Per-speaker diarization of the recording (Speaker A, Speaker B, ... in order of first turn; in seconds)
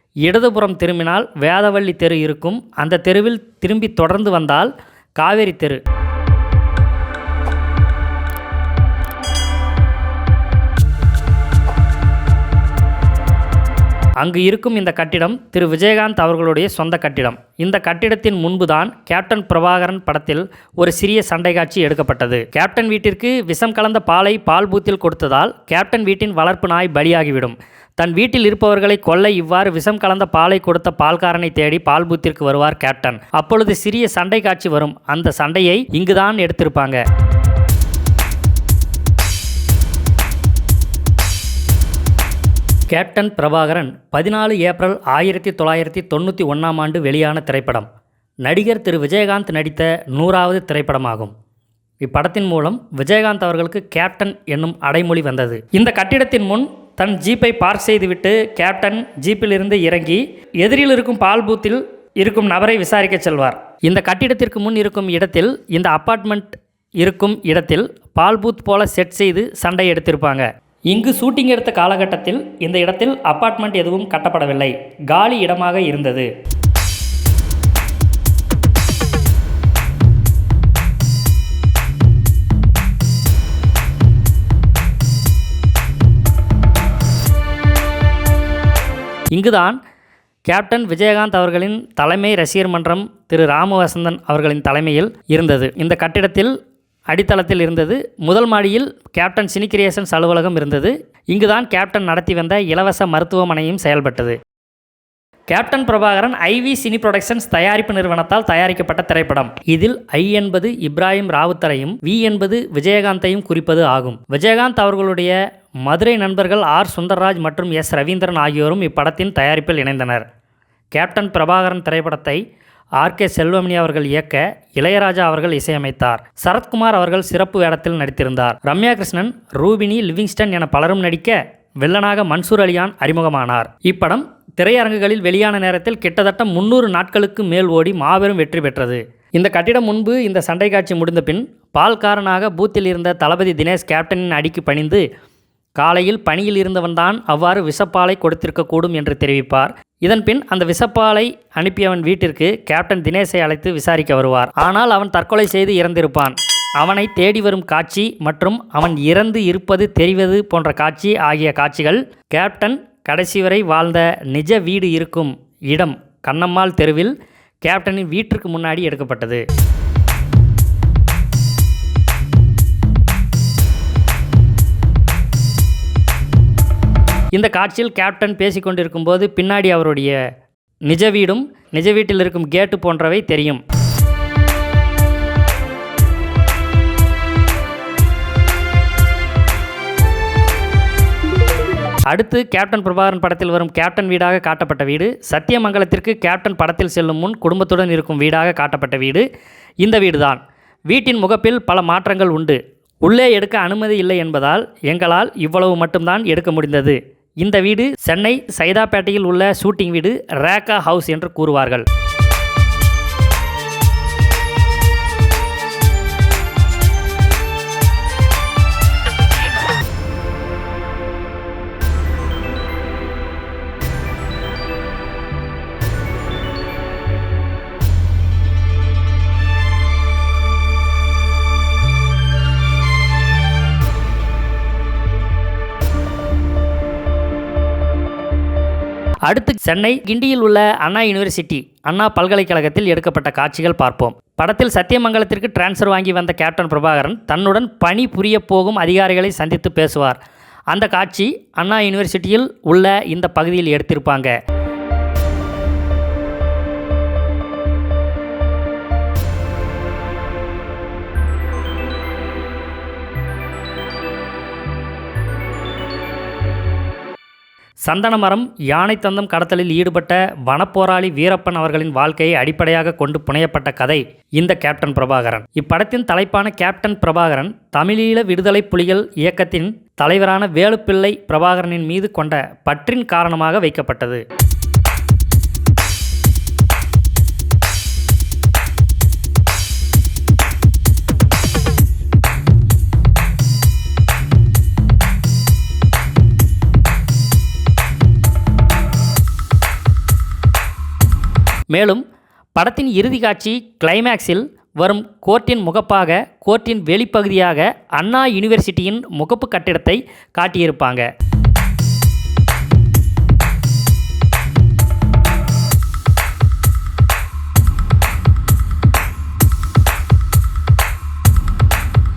Speaker A: 0.2-5.8, 14.2-37.0, 42.9-47.9, 48.4-51.3, 52.0-76.3, 89.3-89.8, 90.5-96.5, 97.1-104.3, 105.5-120.2, 120.9-122.4, 123.0-145.1, 145.8-169.4, 177.3-180.2, 180.9-183.6, 192.1-199.2, 199.8-211.8, 239.2-250.2, 250.7-254.3, 267.8-284.2, 301.7-302.0, 302.6-311.1